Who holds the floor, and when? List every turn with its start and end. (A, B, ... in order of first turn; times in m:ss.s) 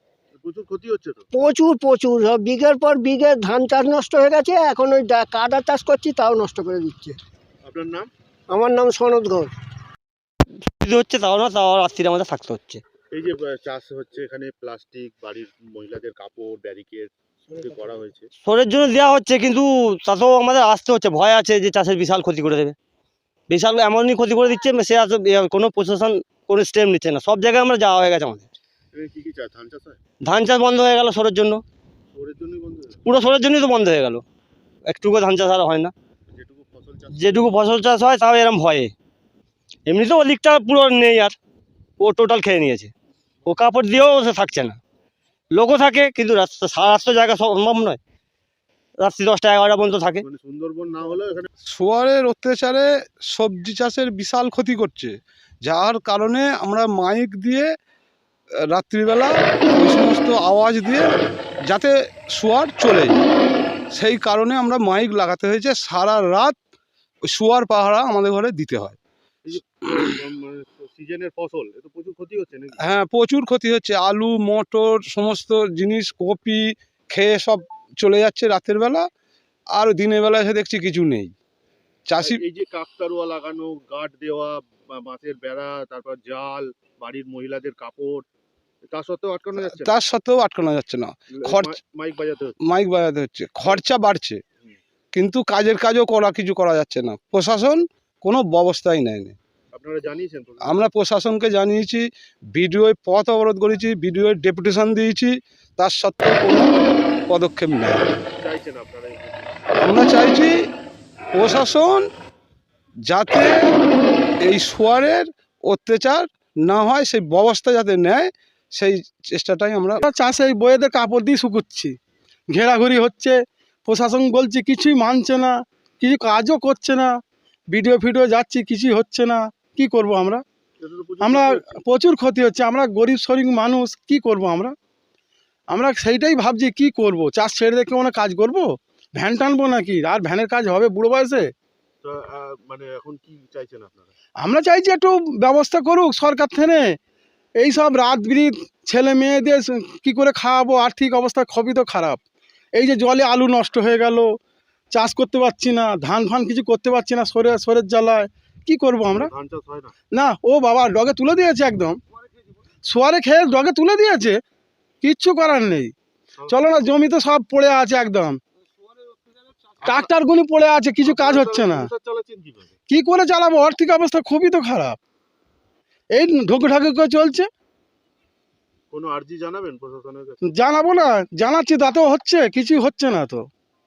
0:00.4-0:01.3 A
0:01.3-0:07.2 B
0:07.6-0:08.1 A
0:08.5-0:09.5 B
0:10.7-0:12.8 C
0:13.1-0:18.3 A
0:18.4-0:22.7 C
0:23.5-0:28.5 C
0:28.9-0:30.0 A
0:30.2-0:31.6 C
0:32.1-0:33.0 A
0:33.0-0:34.2 C
0:34.8-0:35.9 C
0:36.3-0:37.8 A
0:37.1-0:38.9 C
0:39.8-0:41.4 C
0:42.0-0:42.9 C
0:43.4-0:44.8 C
0:45.5-0:48.0 C
0:49.0-0:50.2 C
0:50.2-0:51.5 A
0:51.7-0:55.1 D
0:55.6-0:57.7 D
0:58.7-1:01.1 D
1:01.7-1:03.2 D
1:03.9-1:06.6 D
1:07.2-1:09.0 D
1:09.4-1:13.0 A
1:12.8-1:19.1 D
1:19.7-1:21.3 D
1:22.1-1:22.4 D
1:22.2-1:28.2 A
1:28.9-1:29.9 A
1:29.6-1:31.8 D
1:31.3-1:32.5 A
1:32.6-1:34.4 D
1:35.1-1:39.3 D
1:39.7-1:40.8 A
1:40.6-1:46.7 D
1:47.3-1:48.0 D
1:48.4-1:49.5 A
1:49.8-1:50.5 D
1:51.3-1:52.0 D
1:53.1-1:53.7 D
1:54.4-2:00.0 D
2:00.0-2:01.9 E
2:02.5-2:07.1 E
2:07.7-2:10.4 E
2:10.8-2:11.6 A
2:11.2-2:14.7 E
2:15.7-2:21.5 E
2:22.0-2:24.1 A
2:24.4-2:27.0 E
2:27.6-2:32.2 E
2:32.7-2:34.3 E
2:34.9-2:39.3 E
2:39.1-2:39.9 A
2:40.1-2:42.0 E
2:42.9-2:44.4 E
2:45.0-2:45.9 E
2:46.4-2:46.7 A
2:46.5-2:48.4 E
2:49.8-2:50.1 A
2:49.8-2:51.9 E
2:51.0-2:52.7 A
2:52.9-2:55.0 E
2:56.1-2:57.5 E
2:58.9-3:00.4 A
3:00.5-3:03.5 E